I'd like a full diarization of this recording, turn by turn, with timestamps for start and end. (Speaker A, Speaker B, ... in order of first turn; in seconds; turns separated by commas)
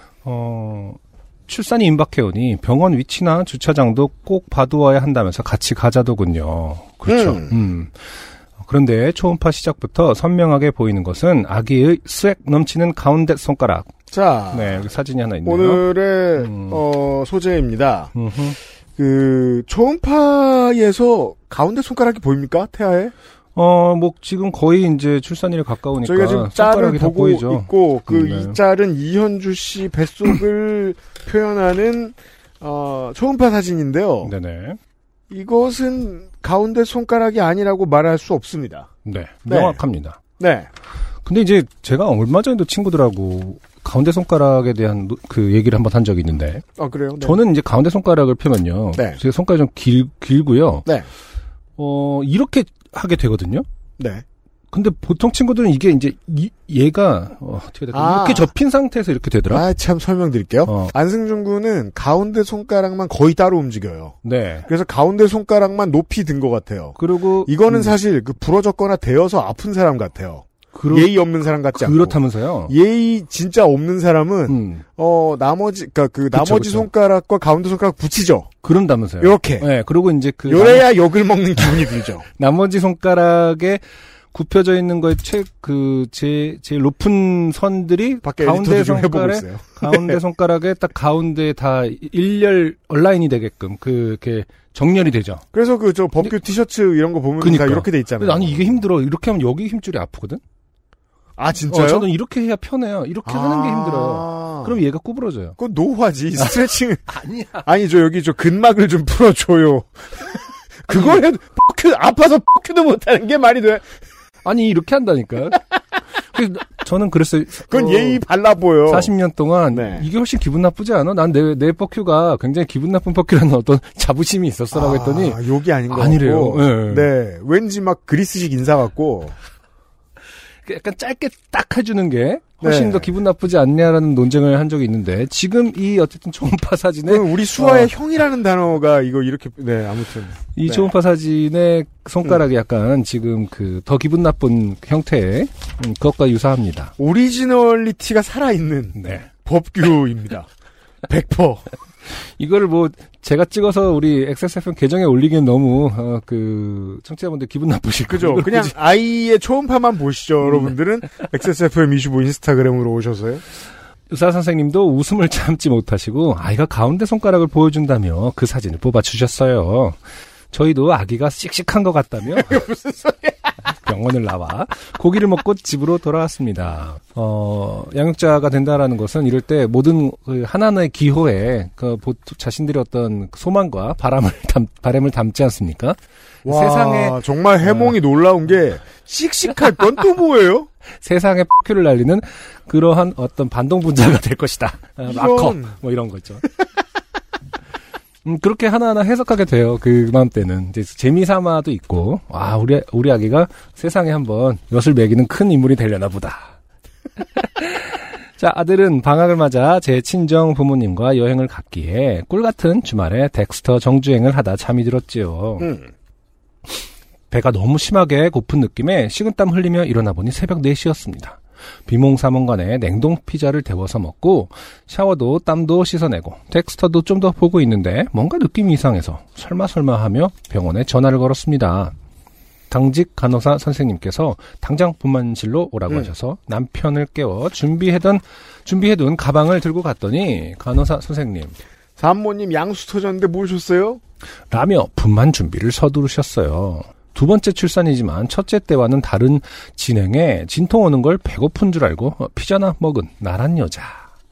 Speaker A: 0.2-13.9, Speaker B: 7.1-7.6, Speaker B: 14.1-14.9, Speaker A: 14.5-15.8, Speaker B: 15.4-18.1, Speaker A: 16.4-16.8, Speaker A: 18.1-18.6, Speaker B: 19.0-23.1, Speaker A: 23.5-28.6, Speaker B: 26.0-34.3, Speaker A: 34.2-34.8, Speaker B: 35.3-38.9, Speaker A: 39.0-40.2, Speaker B: 39.5-39.8, Speaker B: 40.4-40.7, Speaker A: 41.2-46.6, Speaker B: 46.8-47.4, Speaker A: 47.2-50.9, Speaker A: 51.8-53.6, Speaker B: 54.0-54.2, Speaker A: 54.7-59.6, Speaker B: 57.9-58.5, Speaker B: 59.5-64.2, Speaker A: 60.6-60.9, Speaker A: 64.2-64.7, Speaker B: 64.7-78.5, Speaker A: 67.0-68.0, Speaker A: 70.7-71.1, Speaker A: 71.7-72.7, Speaker A: 74.5-74.8, Speaker A: 76.3-76.9, Speaker A: 78.6-80.9, Speaker B: 79.2-79.7, Speaker B: 80.5-82.2, Speaker A: 81.6-95.4, Speaker B: 88.2-90.2, Speaker B: 95.5-98.8, Speaker A: 97.4-100.4, Speaker B: 101.4-102.1, Speaker A: 101.7-105.5, Speaker B: 103.2-104.8, Speaker B: 105.6-107.1, Speaker A: 106.4-107.7, Speaker B: 107.6-113.9, Speaker A: 110.9-111.2, Speaker A: 114.4-115.6, Speaker A: 116.3-118.2, Speaker B: 117.7-119.1, Speaker A: 118.8-127.1, Speaker B: 119.7-120.1, Speaker B: 124.7-129.3, Speaker A: 130.6-137.9, Speaker B: 132.6-133.1, Speaker B: 137.1-140.9, Speaker A: 140.5-146.9, Speaker B: 147.0-150.5, Speaker A: 148.9-149.3, Speaker B: 151.1-151.7, Speaker A: 152.1-158.7, Speaker B: 158.1-163.4, Speaker A: 164.1-170.0, Speaker A: 170.5-172.6, Speaker B: 172.4-173.3, Speaker A: 173.8-188.0, Speaker B: 186.4-190.7, Speaker A: 191.0-196.5, Speaker B: 195.0-195.8, Speaker A: 198.2-206.6, Speaker A: 207.2-215.7, Speaker B: 215.6-215.9, Speaker A: 217.3-231.9, Speaker A: 232.7-241.5, Speaker B: 242.0-244.0, Speaker A: 244.5-254.1